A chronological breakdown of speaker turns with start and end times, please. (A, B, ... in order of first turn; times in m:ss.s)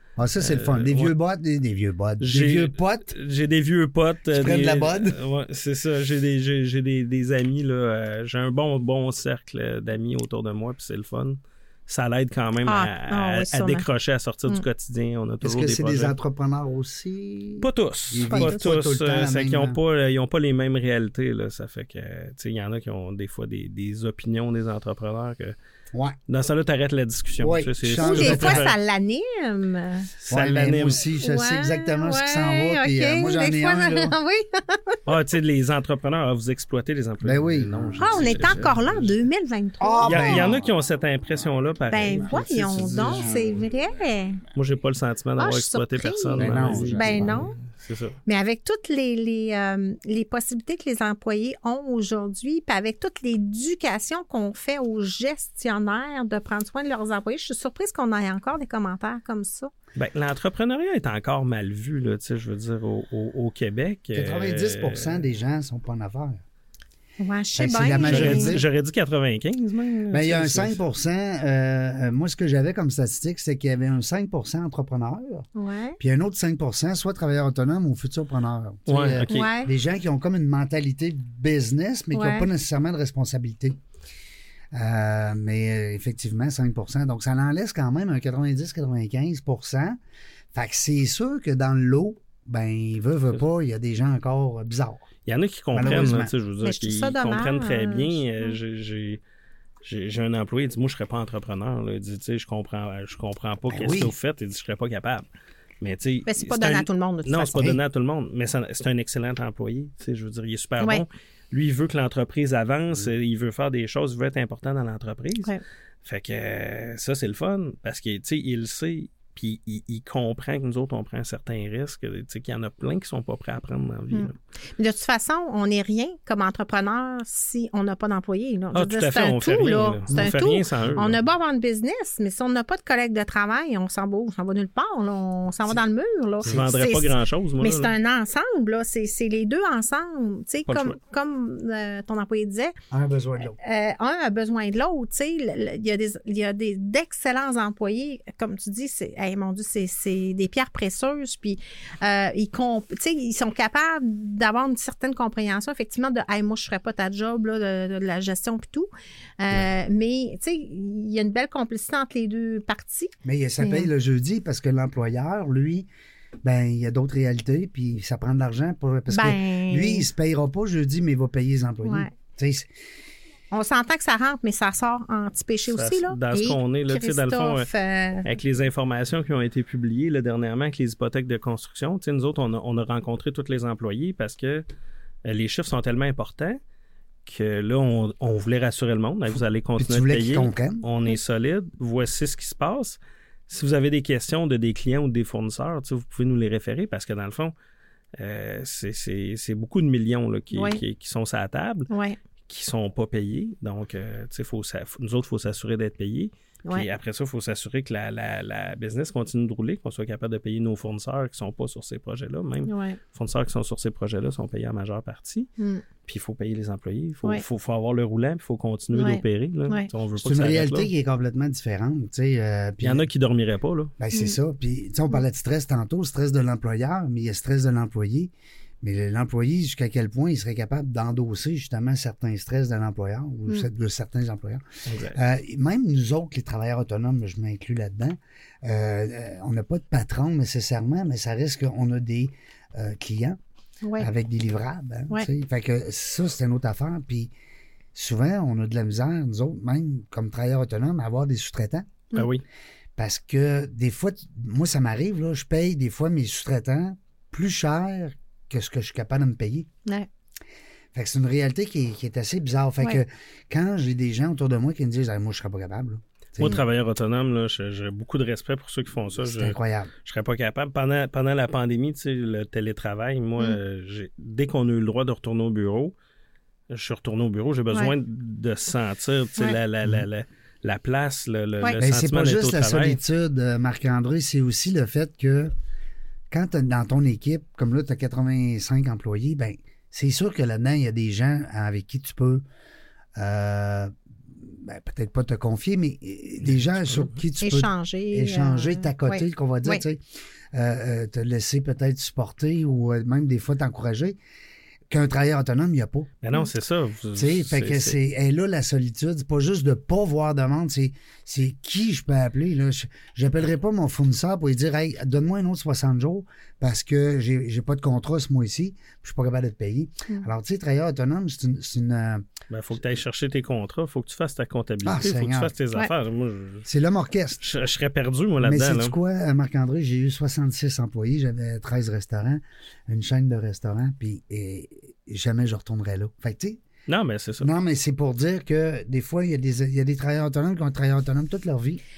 0:00.2-0:03.1 A
0:00.4-0:01.1 B
0:02.2-0:16.1 B
0:04.3-0:05.2 A
0:12.6-0:13.8 C
0:15.4-0:19.8 A
0:17.6-0:25.5 B
0:18.3-0:18.5 C
0:26.3-0:28.8 B
0:27.4-0:28.7 A
0:28.0-0:30.1 C
0:30.2-0:31.0 B
0:30.3-0:34.2 A
0:31.2-0:35.0 C
0:35.0-0:39.2 B
0:37.2-0:38.6 A
0:38.0-0:40.6 C
0:39.8-0:40.7 A
0:40.0-0:43.4 B
0:41.9-0:44.4 C
0:42.8-0:43.6 A
0:44.5-0:48.2 B
0:45.4-0:47.5 C
0:46.4-0:47.5 A
0:48.2-0:59.7 C
0:59.9-1:05.2 B
1:04.1-1:06.4 A
1:07.2-1:08.6 C
1:07.6-1:08.7 A
1:08.0-1:10.8 B
1:10.1-1:15.5 A
1:15.6-1:16.0 C
1:16.0-1:23.8 A
1:18.9-1:19.5 B
1:19.3-1:19.7 C
1:22.1-1:22.5 C
1:24.7-1:30.0 A
1:30.5-1:35.1 A
1:35.2-1:39.2 B
1:35.7-1:36.3 A
1:36.6-1:38.5 C
1:39.8-1:45.2 B
1:43.7-1:44.1 A
1:45.8-1:55.5 B
1:46.2-1:47.7 C
1:56.0-2:04.3 B
2:04.1-2:22.7 C
2:08.7-2:11.2 B
2:16.4-2:17.9 B
2:20.7-2:21.0 B
2:22.9-2:23.6 A
2:23.5-2:38.9 C
2:39.4-2:43.9 C
2:43.2-2:45.9 A
2:46.4-2:52.7 A
2:49.1-2:50.1 C
2:51.8-2:52.1 C
2:53.5-2:58.3 C
2:55.7-2:57.7 B
2:58.2-3:04.6 B
3:05.2-3:06.6 B
3:07.2-3:17.5 B
3:09.8-3:10.8 A
3:18.2-3:21.9 B
3:20.5-3:20.8 C
3:21.9-3:22.2 C
3:22.5-3:35.5 B
3:32.7-3:33.0 C
3:35.6-3:35.8 C
3:36.0-3:40.9 B
3:38.9-3:39.9 C
3:40.2-3:43.1 A
3:42.8-3:43.9 B
3:44.0-3:48.3 A
3:48.8-4:03.4 A
3:54.8-3:55.2 B
4:03.8-4:04.1 C
4:04.0-4:07.3 A
4:07.9-4:11.9 A
4:12.1-4:12.4 B
4:13.0-4:19.7 A
4:20.9-4:26.6 A
4:26.4-4:35.9 B
4:29.2-4:29.9 A
4:36.7-4:43.0 B
4:41.8-4:45.5 A
4:46.3-4:52.4 A
4:53.2-5:04.2 A
4:56.8-4:57.1 B
4:57.4-4:59.8 C
5:04.9-5:06.1 A
5:06.2-5:08.0 B
5:07.2-5:22.3 A
5:22.5-5:26.7 B
5:24.8-5:25.5 A
5:26.6-5:27.4 A
5:27.4-5:28.9 B
5:28.4-5:36.6 A
5:36.9-5:37.5 B
5:37.4-5:41.8 A